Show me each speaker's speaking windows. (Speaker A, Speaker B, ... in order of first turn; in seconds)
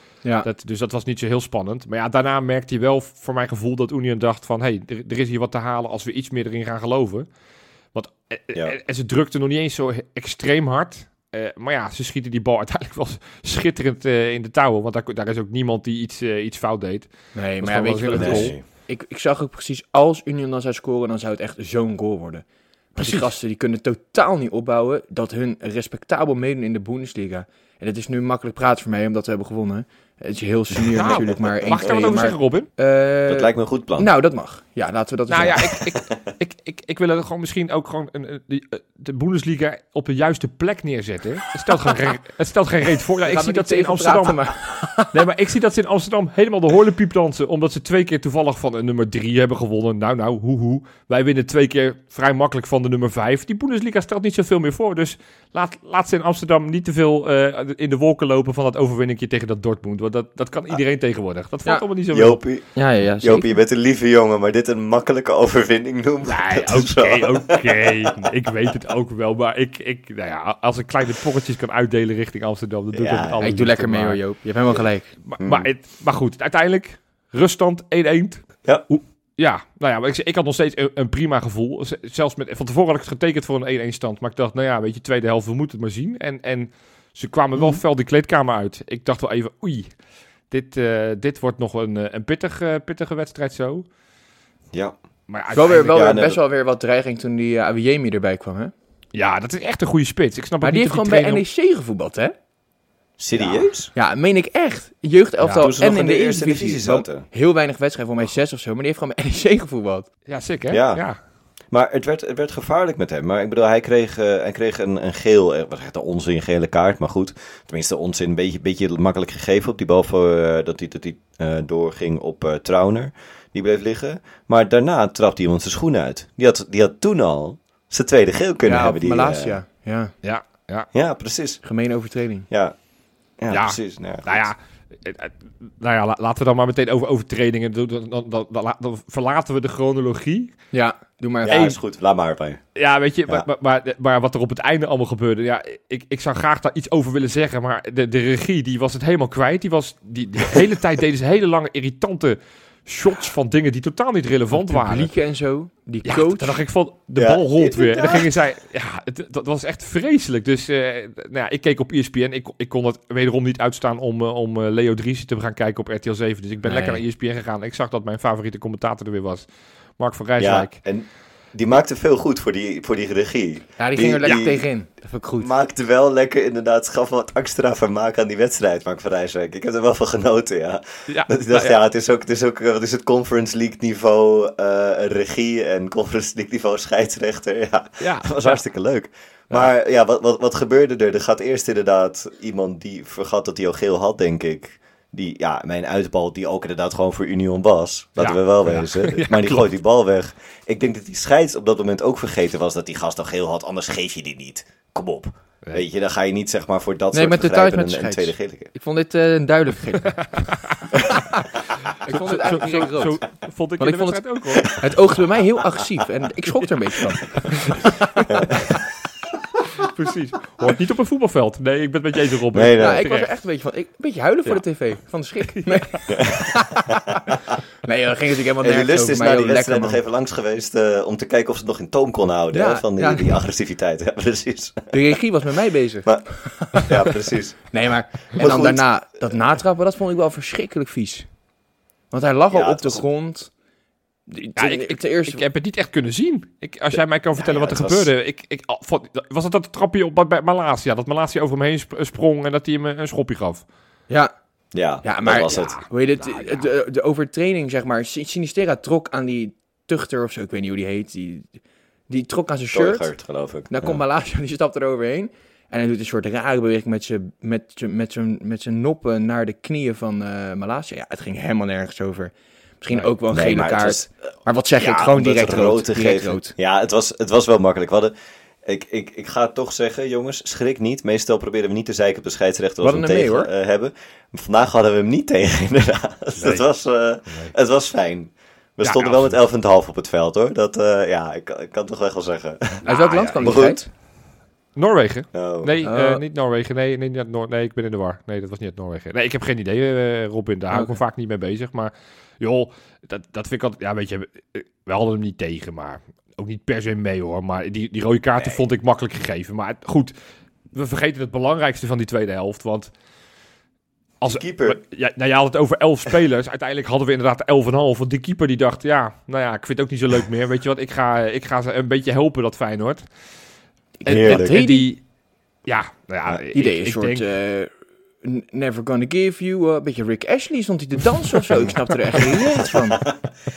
Speaker A: 0.4-7.3, 8.0-18.6, 23.0-23.3, 31.0-32.7, 35.3-44.4, 45.1-62.4, 66.3-74.3, 75.2-89.9, 90.5-93.8, 95.3-96.2, 99.1-101.4, 110.3-111.2, 130.2-130.9, 133.5-140.6, 142.8-155.1, 156.1-170.8, 181.1-181.8, 188.0-188.6, 198.2-199.7, 212.1-214.8, 219.8-223.3, 225.6-226.0, 244.6-253.6, 255.5-256.6, 286.4-286.6, 288.8-289.4, 292.9-293.7, 294.8-310.1, 310.7-312.9, 314.2-323.0, 324.1-325.0, 325.7-327.2
Speaker B: 17.4-35.6, 43.3-45.1, 62.8-63.5, 73.4-75.1, 95.5-98.7, 100.6-102.3, 103.4-110.1, 128.6-130.1, 131.6-132.5, 140.7-141.8, 154.5-156.6, 166.6-167.0, 173.8-175.5, 207.1-210.3, 212.0-213.2, 213.8-218.6, 222.8-230.0, 232.5-233.3, 234.9-237.1, 237.7-241.3, 242.1-243.5, 244.3-245.4, 255.0-263.1, 263.7-276.5, 282.8-283.5, 292.9-293.9, 295.8-296.2, 300.7-301.0, 324.1-324.9, 326.5-327.7, 328.2-333.0
Speaker C: 18.2-18.6, 31.0-32.0, 33.3-34.1, 35.4-36.1, 62.1-68.1, 72.9-73.5, 75.4-75.7, 94.7-95.0, 95.8-96.4, 103.2-103.9, 105.4-107.2, 110.7-111.0, 111.7-129.6, 130.9-131.6, 132.5-132.8, 133.4-134.5, 141.4-142.6, 157.2-158.4, 170.4-174.7, 175.4-208.7, 218.3-218.6, 222.5-223.0, 226.1-226.5, 228.6-234.9, 236.1-239.4, 242.5-243.1, 247.4-248.1, 254.7-255.8, 262.7-264.0, 273.0-274.0, 274.8-278.1, 278.6-292.9, 293.4-293.8, 295.3-295.8, 314.2-314.8, 324.1-324.6, 333.0-333.3